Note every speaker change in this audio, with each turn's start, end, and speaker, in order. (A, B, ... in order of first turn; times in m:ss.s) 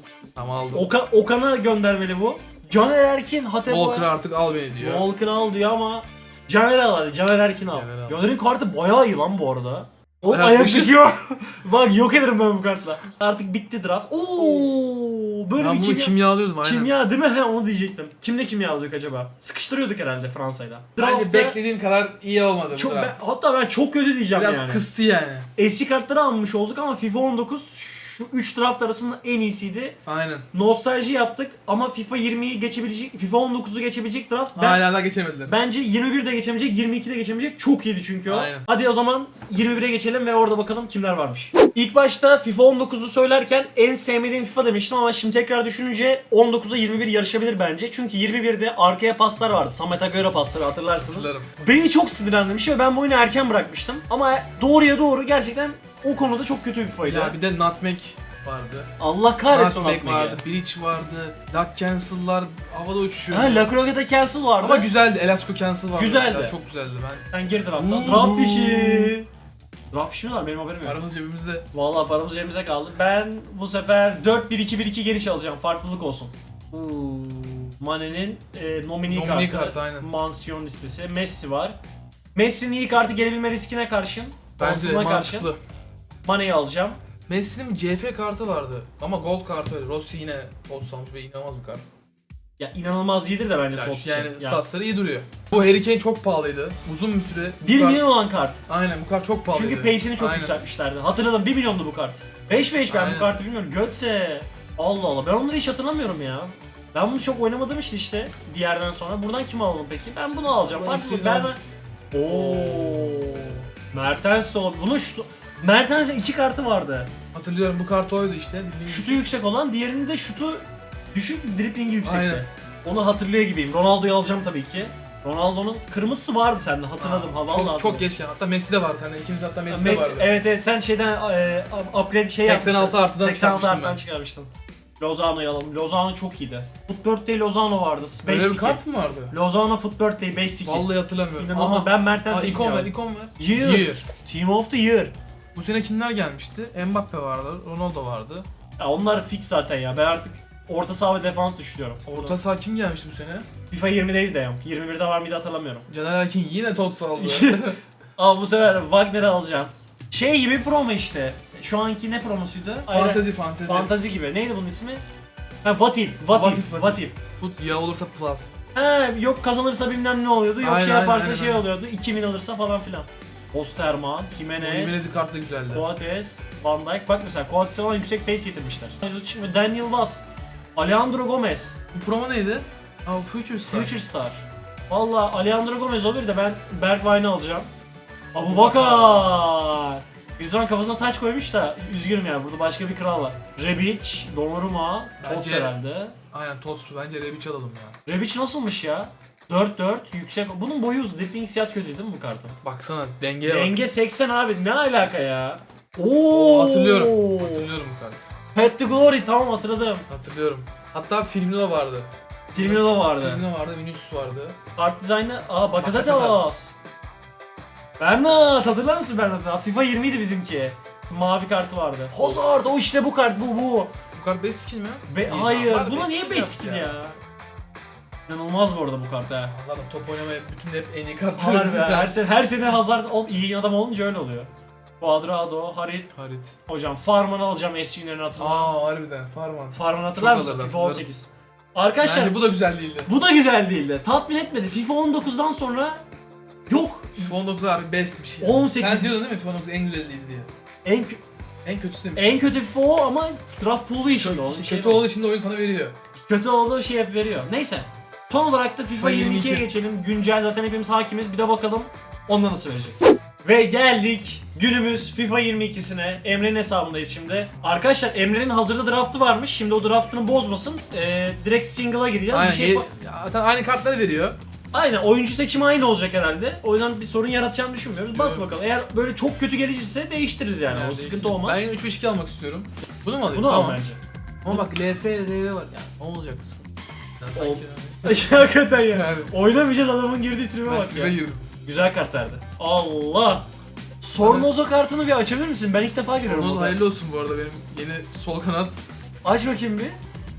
0:00.4-0:00.9 A
0:00.7-0:04.1 B
0:03.7-0:05.1 A
0:04.8-0:21.6 B
0:07.7-0:08.2 A
0:10.3-0:11.0 A
0:14.4-0:14.7 A
0:15.6-0:16.9 A
0:21.0-0:23.2 A
0:22.7-0:24.8 B
0:24.3-0:25.5 A
0:25.6-0:30.0 B
0:30.0-0:30.5 A
0:30.5-0:34.9 B
0:34.5-0:35.5 A
0:35.4-0:57.4 B
0:38.2-0:38.7 A
0:51.0-0:51.5 A
0:57.0-0:58.9 A
0:59.0-1:00.4 B
0:59.5-1:03.7 A
1:03.3-1:04.9 B
1:04.6-1:09.1 A
1:05.9-1:06.5 B
1:07.3-1:09.3 B
1:09.9-1:11.0 B
1:10.8-1:11.7 A
1:11.7-1:21.8 B
1:19.1-1:20.1 A
1:22.3-1:25.5 B
1:24.6-1:25.6 A
1:26.2-1:27.0 B
1:27.3-1:31.8 A
1:32.6-1:34.6 B
1:33.7-1:38.1 A
1:37.6-1:38.6 B
1:38.7-1:40.6 A
1:39.5-1:51.6 B
1:42.9-1:43.4 A
1:50.6-1:51.6 A
1:52.1-1:57.1 B
1:52.3-1:53.4 A
1:57.3-1:59.2 A
1:58.9-2:08.0 B
2:02.0-2:02.4 A
2:07.0-2:10.3 A
2:09.7-2:25.1 B
2:12.4-2:14.0 A
2:18.2-2:19.4 A
2:20.6-2:24.0 A
2:25.5-2:28.4 A
2:28.8-2:32.4 B
2:32.1-2:33.4 A
2:33.7-2:35.8 B
2:35.9-2:37.8 A
2:37.2-2:45.0 B
2:42.9-2:44.0 A
2:45.6-2:47.1 B
2:46.3-2:48.5 A
2:48.7-2:55.1 B
2:50.6-2:51.7 A
2:54.6-2:55.8 A
2:55.7-3:00.2 B
3:00.8-3:01.8 B
3:01.9-3:03.9 A
3:03.6-3:07.7 B
3:08.3-3:16.2 B
3:08.4-3:09.4 A
3:15.2-3:15.8 A
3:16.3-3:18.0 A
3:18.0-3:22.6 B
3:22.6-3:23.8 A
3:23.4-3:27.7 B
3:26.3-3:28.2 A
3:28.5-3:30.0 B
3:30.1-3:34.6 A
3:32.5-3:33.4 B
3:34.8-3:36.7 B
3:35.8-3:36.6 A
3:38.0-3:43.9 B
3:42.1-3:42.5 A
3:44.1-3:46.9 A
3:45.1-3:47.2 B
3:48.3-3:49.5 B
3:49.5-3:52.2 A
3:51.4-3:54.5 B
3:55.0-3:56.1 B
3:56.1-3:56.5 A
3:56.7-3:58.7 B
3:58.4-4:01.0 A
3:59.7-4:02.5 B
4:02.0-4:03.1 A
4:03.0-4:06.0 B
4:06.7-4:07.3 B
4:07.2-4:10.5 A
4:08.4-4:09.2 B
4:10.8-4:11.2 B
4:11.6-4:12.5 A
4:12.2-4:15.1 B
4:14.1-4:15.9 A
4:16.2-4:32.9 B
4:18.9-4:19.7 A
4:32.3-4:34.4 A
4:34.7-4:41.6 B
4:38.0-4:38.5 A
4:40.7-4:43.8 A
4:43.3-4:44.0 B
4:44.4-4:46.7 A
4:47.2-4:49.3 A
4:47.4-4:53.4 B
4:50.6-4:51.4 A
4:54.0-4:56.8 B
4:54.2-4:54.5 A
4:56.2-4:58.8 A
4:59.2-5:00.0 B